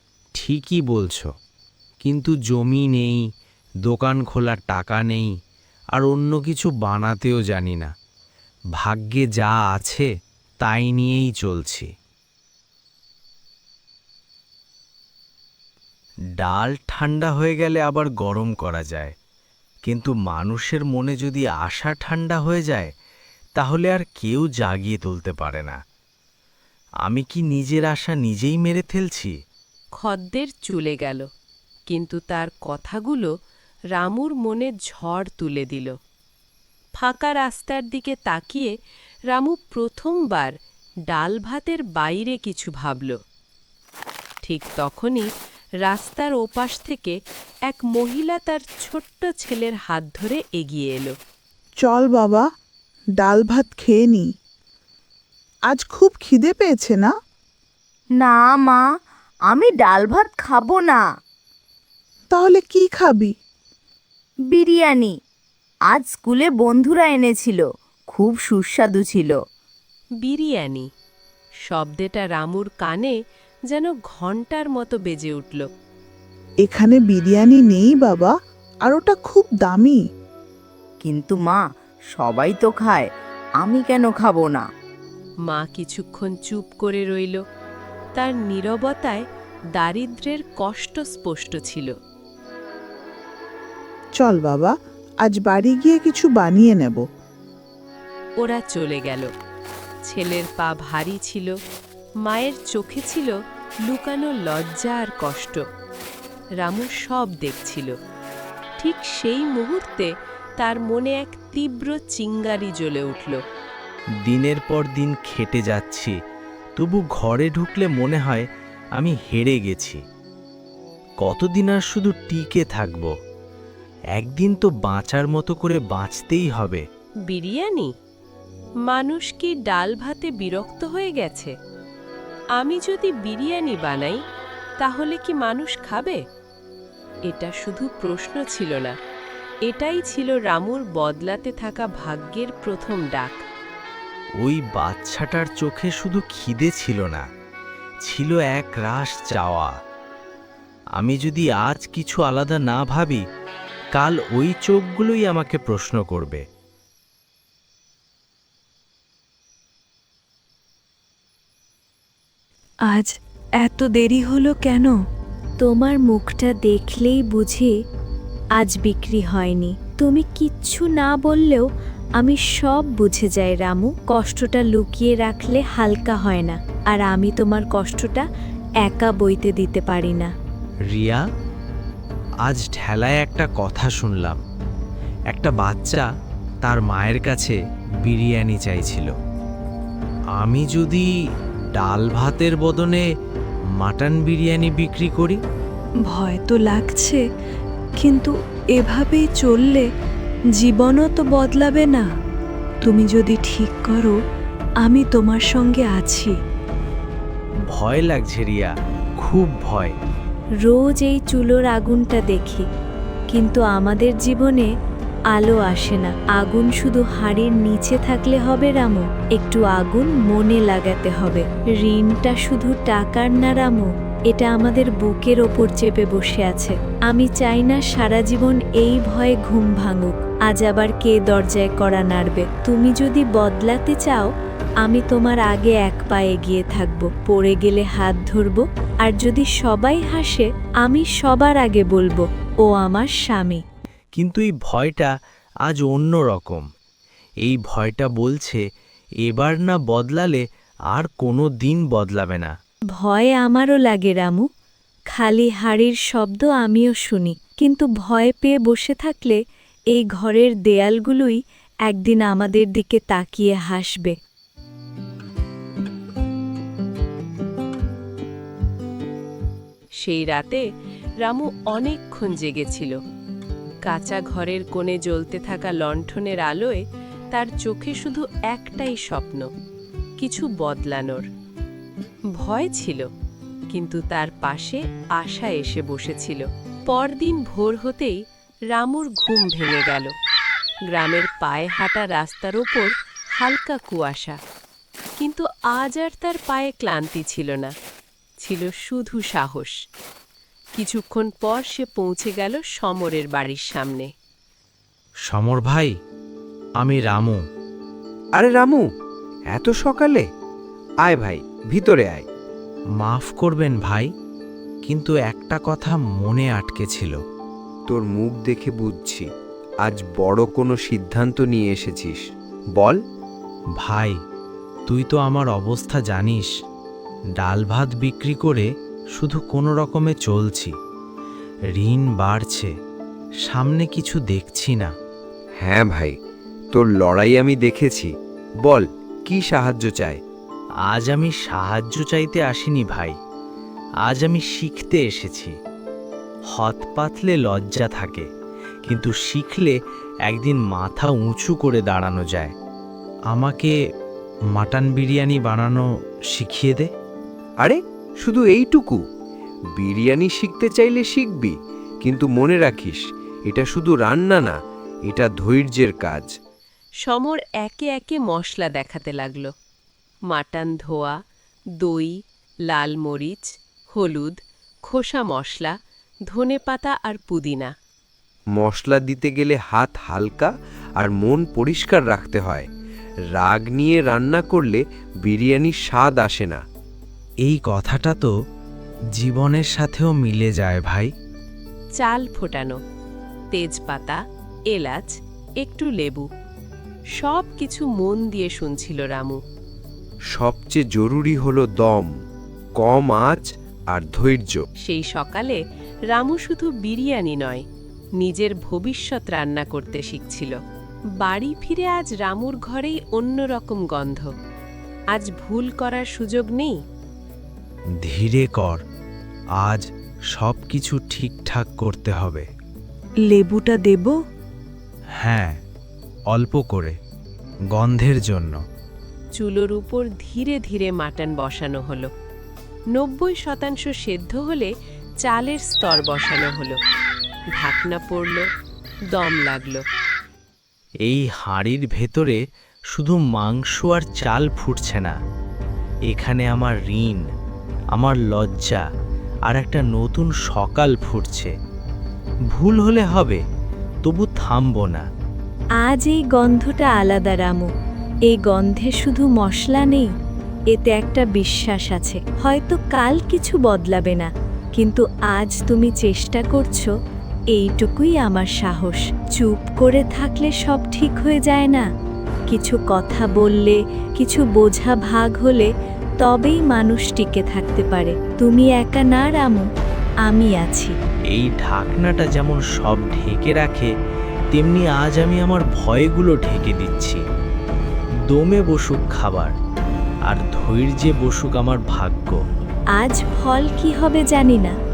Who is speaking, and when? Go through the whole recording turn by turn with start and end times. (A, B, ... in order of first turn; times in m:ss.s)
0:00.4-0:01.3 A
0:02.0-0:03.2 A
0:03.9-0:05.3 A
0:06.0-0:07.9 A
0:08.8-0:10.1 A
0:10.6-0:11.9 A
0:16.4-0:19.1 A
0:19.8-0:22.9 A
0:23.6-0:25.8 A
0:27.1-0:29.3 A
0:30.0-0:31.2 B
0:31.9-0:33.3 B
0:34.0-0:35.9 B
0:37.0-0:38.7 B
0:39.3-0:40.5 B
0:41.1-0:43.2 B
0:44.4-0:45.3 B
0:45.8-0:47.2 B
0:47.7-0:51.1 B
0:51.8-0:52.5 C
0:53.2-0:54.3 C
0:55.7-0:57.1 C
0:58.2-0:58.8 D
0:59.5-1:01.0 D
1:02.3-1:03.3 C
1:04.5-1:05.1 D
1:05.9-1:09.4 D
1:10.2-1:10.9 B
1:11.7-1:13.2 B
1:13.7-1:15.7 B
1:16.6-1:18.3 C
1:18.8-1:20.0 C
1:21.0-1:24.6 D
1:25.5-1:27.4 B
1:28.2-1:29.2 B
1:29.8-1:31.9 B
1:34.2-1:37.0 C
1:38.4-1:39.3 B
1:40.1-1:41.6 B
1:42.2-1:43.4 B
1:43.9-1:45.6 B
1:46.6-1:47.9 B
1:48.8-1:53.4 B
1:54.3-1:56.2 A
1:56.8-2:00.0 A
2:01.2-2:03.1 A
2:04.2-2:06.8 A
2:07.3-2:07.9 B
2:08.9-2:11.5 B
2:12.6-2:14.2 B
2:14.8-2:16.2 B
2:17.3-2:18.9 B
2:19.7-2:23.4 B
2:24.4-2:27.2 A
2:28.0-2:29.7 A
2:31.0-2:33.2 A
2:34.0-2:36.4 A
2:42.9-2:45.0 E
2:45.6-2:47.7 F
2:48.6-2:51.7 F
2:52.2-2:58.2 F
2:58.8-3:00.3 F
3:00.9-3:01.2 A
3:02.5-3:04.4 A
3:05.3-3:06.1 A
3:06.6-3:09.1 A
3:10.4-3:11.1 A
3:11.8-3:13.0 A
3:13.8-3:15.4 A
3:16.1-3:17.2 E
3:18.0-3:19.9 E
3:20.6-3:22.1 E
3:22.8-3:24.2 E
3:24.8-3:26.3 E
3:27.7-3:29.9 A
3:30.6-3:32.6 F
3:33.3-3:34.7 F
3:35.3-3:54.3 F
3:54.8-4:03.6 F
4:04.2-4:05.1 A
4:05.7-4:06.6 A
4:07.4-4:08.6 A
4:09.2-4:12.5 A
4:13.0-4:14.4 F
4:15.1-4:19.4 F
4:19.9-4:21.4 F
4:21.9-4:24.2 F
4:30.0-4:30.6 B
4:31.2-4:33.0 B
4:33.9-4:36.8 B
4:37.3-4:39.5 B
4:40.2-4:41.3 B
4:42.4-4:43.1 B
4:43.7-4:48.2 B
4:48.7-4:50.1 B
4:50.9-4:54.4 B
4:55.2-4:57.7 B
4:58.4-4:59.8 B
5:00.8-5:04.1 B
5:05.3-5:05.9 A
5:06.8-5:07.4 A
5:08.4-5:08.9 G
5:09.5-5:10.2 G
5:11.0-5:12.2 G
5:13.0-5:14.1 A
5:14.9-5:17.2 A
5:17.9-5:19.3 G
5:19.8-5:22.2 G
5:23.8-5:24.2 A
5:24.9-5:26.5 A
5:27.4-5:30.7 A
5:31.8-5:32.7 A
5:33.4-5:34.9 A
5:35.6-5:36.2 G
5:36.7-5:38.1 G
5:38.6-5:40.2 G
5:40.9-5:43.2 A
5:44.0-5:45.5 A
5:46.5-5:48.3 A
5:48.9-5:52.5 A
5:53.3-5:53.8 A
5:54.6-5:56.9 A
5:57.6-5:59.0 G
5:59.8-6:06.3 G
6:07.0-6:09.5 B
6:10.3-6:11.2 B
6:11.8-6:12.1 B
6:12.7-6:14.4 B
6:14.9-6:15.7 B
6:16.3-6:17.7 B
6:18.6-6:22.7 G
6:23.3-6:26.6 G
6:27.4-6:28.3 A
6:29.2-6:31.1 A
6:32.0-6:32.8 B
6:33.5-6:34.2 B
6:34.7-6:36.3 B
6:37.2-6:39.4 B
6:40.3-6:42.1 G
6:42.8-6:44.6 G
6:44.8-6:45.6 B
6:46.1-6:47.6 B
6:48.2-6:50.6 B
6:51.2-6:54.3 B
6:55.1-6:56.8 B
6:58.0-6:58.8 A
6:59.6-7:02.5 A
7:03.2-7:04.2 E
7:05.2-7:05.6 A
7:06.3-7:07.0 A
7:07.8-7:08.6 A
7:09.4-7:12.1 B
7:13.0-7:14.7 B
7:15.2-7:16.8 B
7:17.6-7:18.4 B
7:19.1-7:19.8 B
7:21.0-7:22.4 A
7:22.9-7:25.2 A
7:26.1-7:27.2 A
7:27.9-7:28.8 A
7:29.5-7:31.5 A
7:32.5-7:33.4 A
7:34.0-7:35.1 A
7:35.8-7:37.7 F
7:38.3-7:40.1 F
7:40.7-7:46.9 F
7:47.6-7:51.8 F
7:52.5-7:55.7 F
7:56.2-7:59.7 F
8:00.3-8:01.0 F
8:01.3-8:03.9 A
8:04.5-8:07.2 A
8:08.3-8:09.5 A
8:10.3-8:12.4 A
8:13.0-8:14.7 F